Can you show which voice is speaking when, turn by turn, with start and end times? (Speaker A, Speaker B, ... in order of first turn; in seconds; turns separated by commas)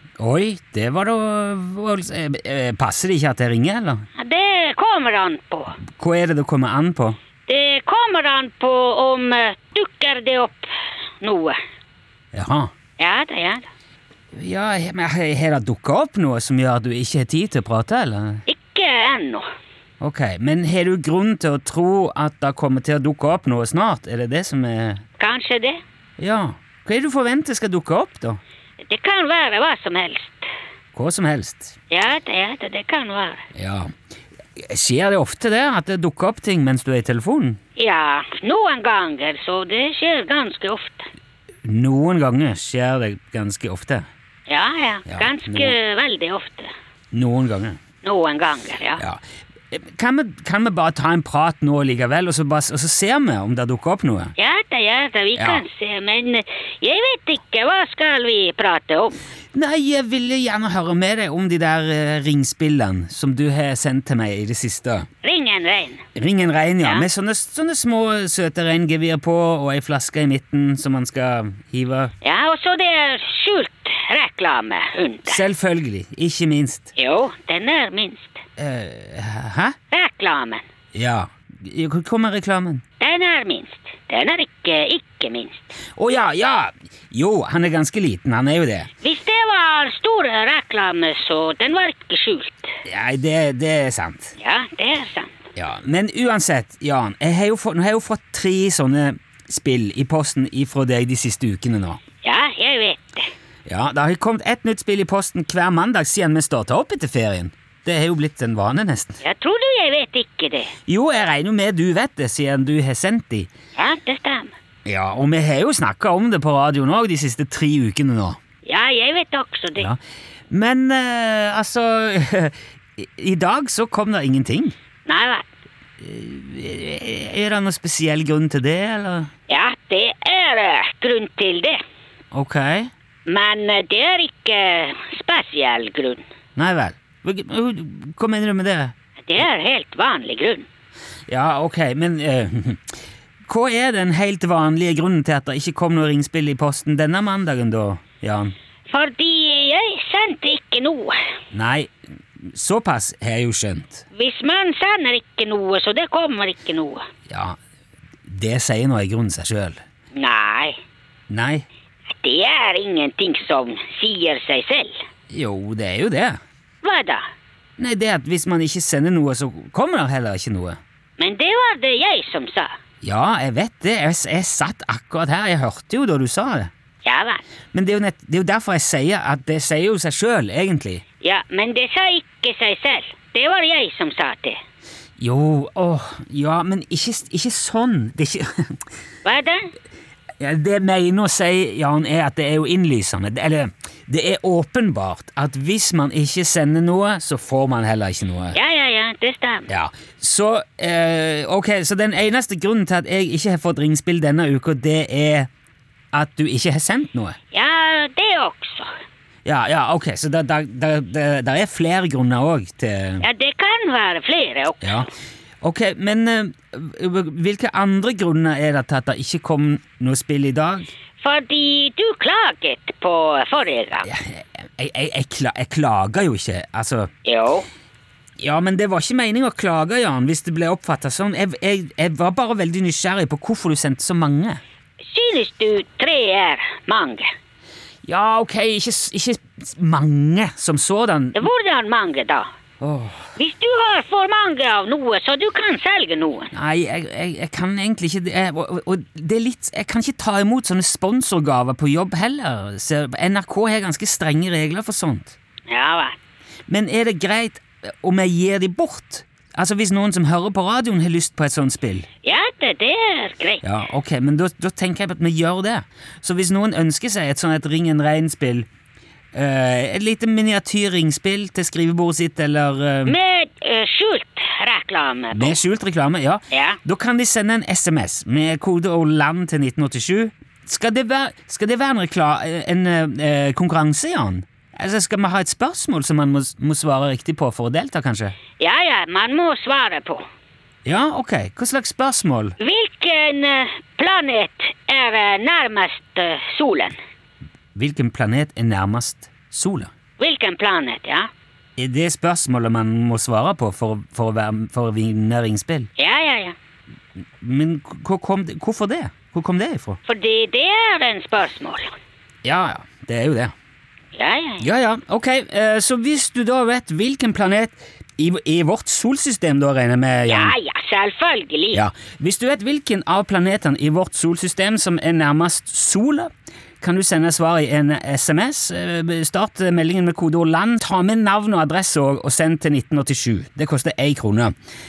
Speaker A: 0.2-4.0, Speaker B: 4.2-5.8, Speaker A: 5.9-7.2, Speaker B: 7.5-10.7, Speaker B: 11.2-11.6, Speaker A: 12.3-12.7, Speaker B: 13.0-13.6, Speaker A: 14.3-18.4, Speaker B: 18.5-19.4, Speaker A: 20.0-25.0, Speaker B: 25.2-25.8, Speaker A: 26.2-28.4, Speaker B: 28.8-30.5, Speaker A: 30.9-31.7, Speaker B: 31.9-33.4, Speaker A: 33.5-33.9, Speaker A: 34.6-37.6, Speaker B: 37.8-41.1, Speaker A: 41.6-44.0, Speaker B: 44.5-46.7, Speaker A: 45.1-45.7, Speaker A: 47.1-47.8, Speaker B: 48.0-49.0, Speaker A: 49.0-54.3, Speaker B: 54.4-59.2, Speaker A: 55.4-55.6, Speaker A: 59.5-65.1, Speaker B: 65.2-66.0, Speaker A: 66.1-72.1, Speaker B: 72.2-75.4, Speaker A: 75.3-76.9, Speaker B: 77.0-78.4, Speaker A: 78.6-79.7, Speaker B: 79.9-80.6, Speaker A: 80.9-82.8, Speaker B: 83.0-85.8, Speaker A: 85.9-88.9, Speaker B: 89.0-92.7, Speaker A: 92.8-94.3, Speaker B: 94.4-95.3, Speaker A: 95.5-102.0, Speaker B: 102.2-103.3, Speaker A: 103.7-109.2, Speaker B: 109.2-110.7, Speaker A: 110.9-113.5, Speaker B: 113.8-114.5, Speaker A: 114.8-118.4, Speaker B: 118.6-119.9, Speaker A: 120.5-124.7, Speaker B: 125.0-125.4, Speaker A: 126.0-129.3, Speaker B: 129.5-131.8, Speaker A: 132.3-132.9, Speaker B: 133.2-136.2, Speaker A: 136.6-138.9, Speaker B: 139.2-140.7, Speaker A: 141.3-148.5, Speaker B: 148.9-151.2, Speaker A: 151.5-154.0, Speaker B: 154.1-157.1, Speaker A: 157.3-157.6, Speaker A: 158.2-159.8, Speaker B: 160.1-160.8, Speaker A: 161.3-161.7, Speaker B: 162.2-165.0, Speaker A: 165.3-166.4, Speaker B: 166.8-167.2, Speaker A: 167.8-170.8, Speaker B: 171.2-172.7, Speaker A: 173.0-176.7, Speaker B: 177.0-177.4, Speaker A: 177.7-181.0, Speaker B: 181.2-184.6, Speaker A: 185.2-188.8, Speaker B: 189.2-189.7, Speaker A: 190.4-198.6, Speaker B: 198.5-199.7, Speaker A: 199.7-205.5, Speaker A: 206.1-207.3, Speaker B: 207.5-208.9, Speaker A: 209.4-213.2, Speaker B: 213.2-215.0, Speaker A: 214.8-215.1, Speaker A: 215.6-220.9, Speaker B: 221.2-224.1, Speaker A: 224.0-227.1, Speaker B: 227.2-227.7, Speaker A: 228.4-234.6, Speaker B: 235.0-237.3, Speaker A: 238.0-241.5, Speaker B: 241.3-242.5, Speaker A: 242.8-243.3, Speaker B: 243.3-246.5, Speaker A: 246.5-255.3, Speaker B: 255.7-256.1, Speaker A: 256.7-262.1, Speaker B: 262.2-263.6, Speaker A: 263.6-268.7, Speaker A: 269.3-273.1, Speaker B: 273.1-275.6, Speaker A: 275.3-288.4, Speaker B: 276.5-276.8, Speaker B: 288.6-290.2, Speaker A: 290.8-292.6, Speaker B: 292.6-296.9, Speaker A: 297.7-299.9, Speaker B: 300.2-301.3, Speaker A: 301.8-305.9, Speaker B: 306.0-306.5, Speaker A: 307.4-310.0, Speaker B: 310.1-311.9, Speaker A: 312.4-313.5, Speaker B: 314.1-314.6, Speaker A: 314.6-320.5, Speaker B: 320.3-321.8, Speaker A: 321.7-326.3, Speaker A: 326.8-334.5